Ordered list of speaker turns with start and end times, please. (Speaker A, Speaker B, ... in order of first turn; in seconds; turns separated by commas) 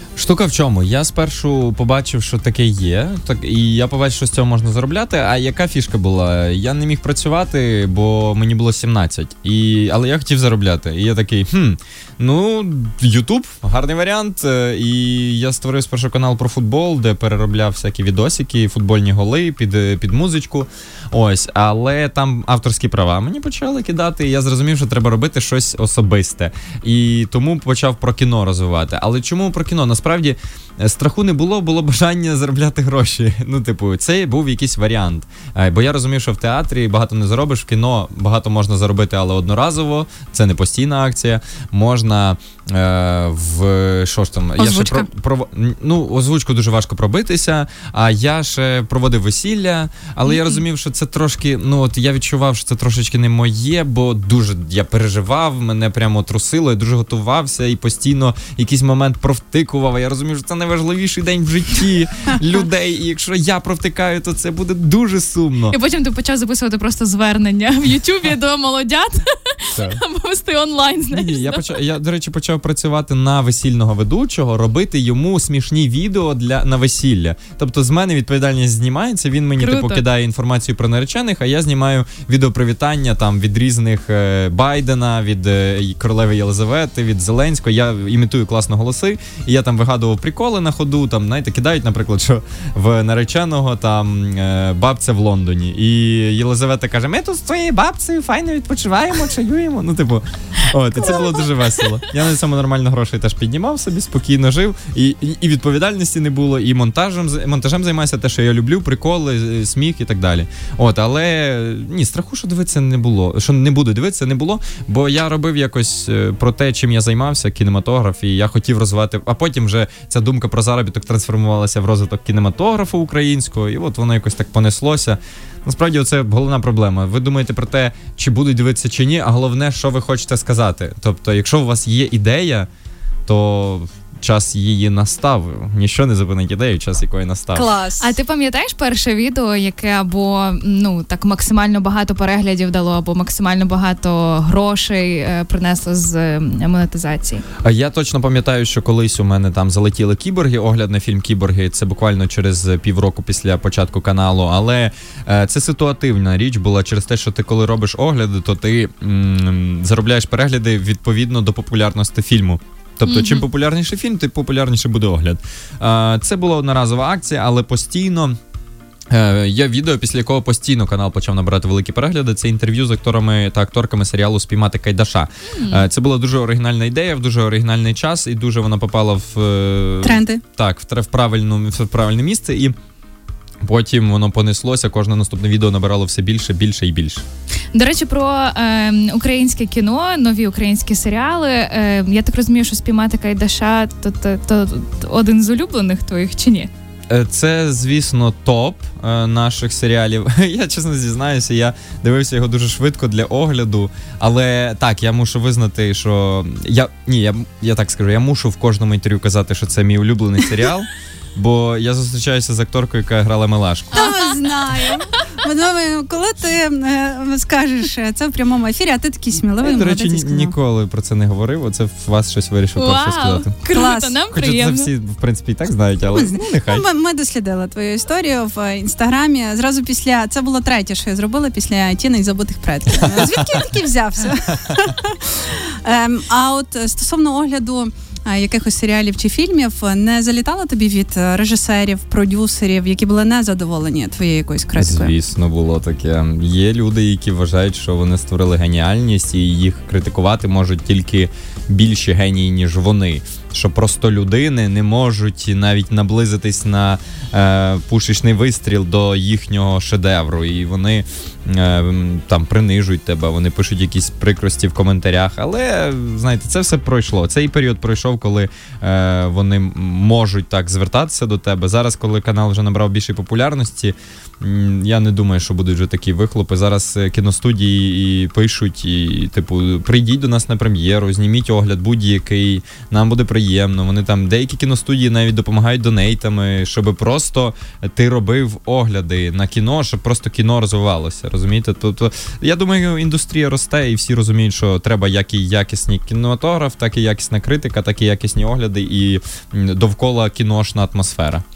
Speaker A: 0.1-65.8, Speaker B: 44.6-45.1, Speaker C: 50.3-50.6, Speaker C: 65.7-71.8, Speaker A: 69.7-70.0, Speaker A: 71.1-132.7, Speaker C: 79.6-80.0, Speaker A: 133.3-137.7, Speaker B: 137.5-138.1, Speaker C: 138.0-147.4, Speaker A: 147.6-168.4, Speaker C: 163.1-163.5, Speaker A: 169.1-182.7, Speaker C: 175.6-175.8, Speaker B: 180.0-180.4, Speaker A: 183.6-187.2, Speaker C: 187.7-196.7, Speaker A: 197.1-214.1, Speaker B: 213.9-220.5, Speaker C: 213.9-215.3, Speaker A: 219.6-223.5, Speaker C: 222.8-224.9, Speaker B: 223.7-224.2, Speaker A: 224.3-226.8, Speaker B: 226.1-245.1, Speaker A: 233.0-233.6, Speaker A: 244.8-301.4